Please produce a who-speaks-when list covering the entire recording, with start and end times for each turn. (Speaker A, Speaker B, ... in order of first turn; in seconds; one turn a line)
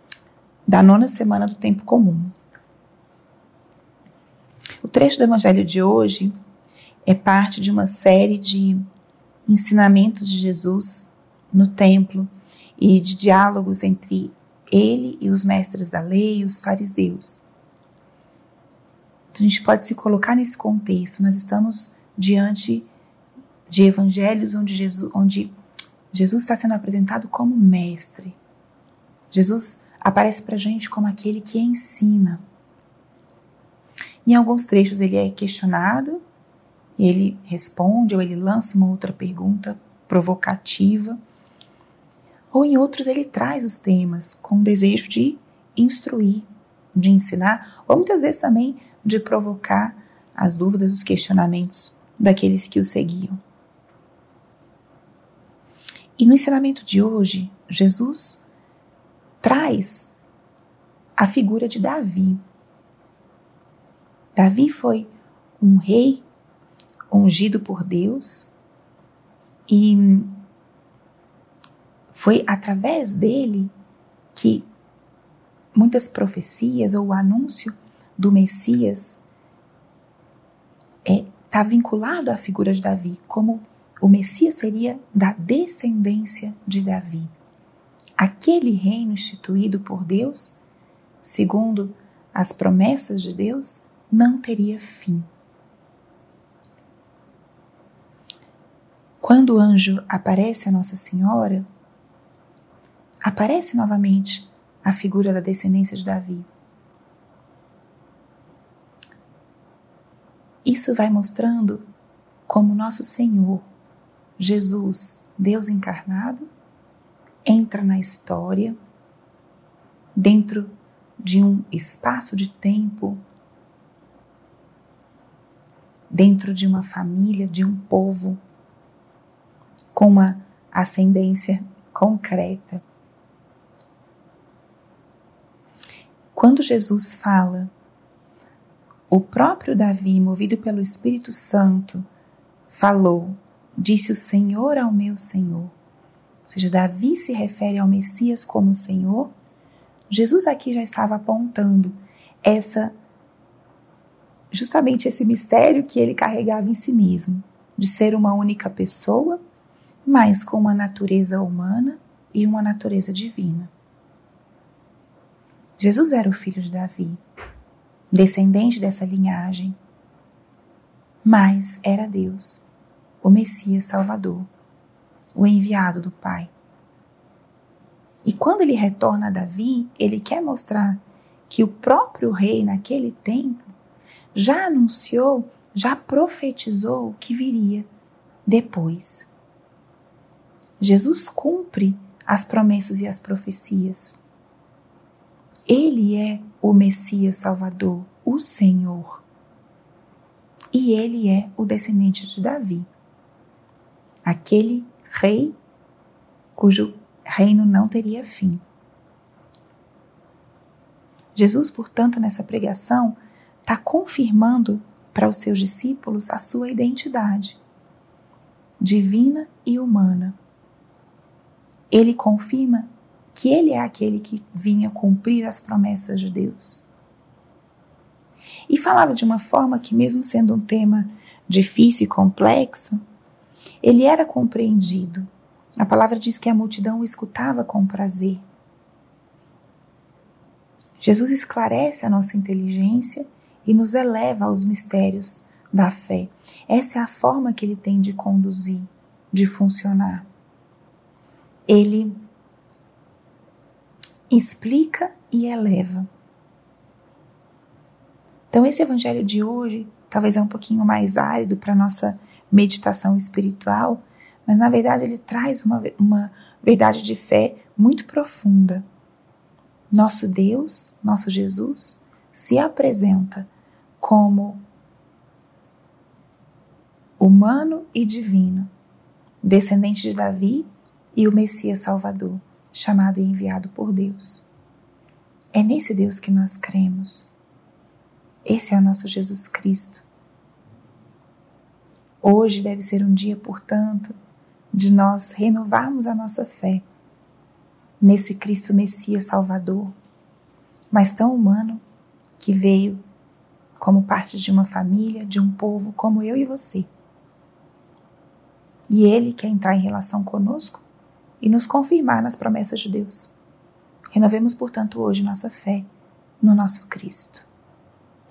Speaker A: 0.7-2.3
Speaker A: 4.8-6.3
Speaker A: 7.1-8.8
Speaker A: 9.5-17.4
Speaker A: 19.3-22.9
Speaker A: 23.7-25.5
Speaker A: 26.1-28.4
Speaker A: 29.3-32.4
Speaker A: 34.2-36.2
Speaker A: 37.0-41.2
Speaker A: 42.5-53.4
Speaker A: 56.2-58.4
Speaker A: 59.4-60.1
Speaker A: 61.2-62.4
Speaker A: 64.3-66.2
Speaker A: 67.1-68.5
Speaker A: 69.7-70.4
Speaker A: 72.1-73.7
Speaker A: 74.3-74.7
Speaker A: 75.8-79.2
Speaker A: 81.0-87.3
Speaker A: 88.2-90.6
Speaker A: 91.2-95.3
Speaker A: 99.2-101.7
Speaker A: 103.2-106.5
Speaker A: 110.7-111.8
Speaker A: 112.5-113.7
Speaker A: 114.4-116.5
Speaker A: 117.5-118.8
Speaker A: 120.2-123.2
Speaker A: 126.1-128.4
Speaker A: 129.9-132.8
Speaker A: 136.3-137.7
Speaker A: 139.1-142.1
Speaker A: 142.7-145.7
Speaker A: 146.5-149.3
Speaker A: 150.1-152.9
Speaker A: 154.5-159.4
Speaker A: 160.1-163.7
Speaker A: 165.8-167.2
Speaker A: 168.1-169.8
Speaker A: 171.2-172.6
Speaker A: 173.2-174.5
Speaker A: 175.3-176.5
Speaker A: 178.2-183.7
Speaker A: 184.3-187.9
Speaker A: 188.5-189.3
Speaker A: 190.8-194.2
Speaker A: 195.7-199.2
Speaker A: 200.7-202.9
Speaker A: 204.2-205.6
Speaker A: 206.6-208.6
Speaker A: 211.3-217.6
Speaker A: 218.8-220.4
Speaker A: 221.9-226.9
Speaker A: 228.7-233.0
Speaker A: 233.8-238.4
Speaker A: 241.0-250.3
Speaker A: 251.7-252.2
Speaker A: 254.3-256.1
Speaker A: 258.5-268.8
Speaker A: 269.9-273.5
Speaker A: 274.0-274.6
Speaker A: 277.2-278.7
Speaker A: 279.4-284.4
Speaker A: 285.5-287.3
Speaker A: 288.4-290.1
Speaker A: 292.2-294.1
Speaker A: 294.7-296.8
Speaker A: 298.0-299.9
Speaker A: 300.9-301.8
Speaker A: 302.4-303.0
Speaker A: 303.8-306.9
Speaker A: 308.9-310.8
Speaker A: 311.4-313.3
Speaker A: 314.1-315.9
Speaker A: 316.4-317.5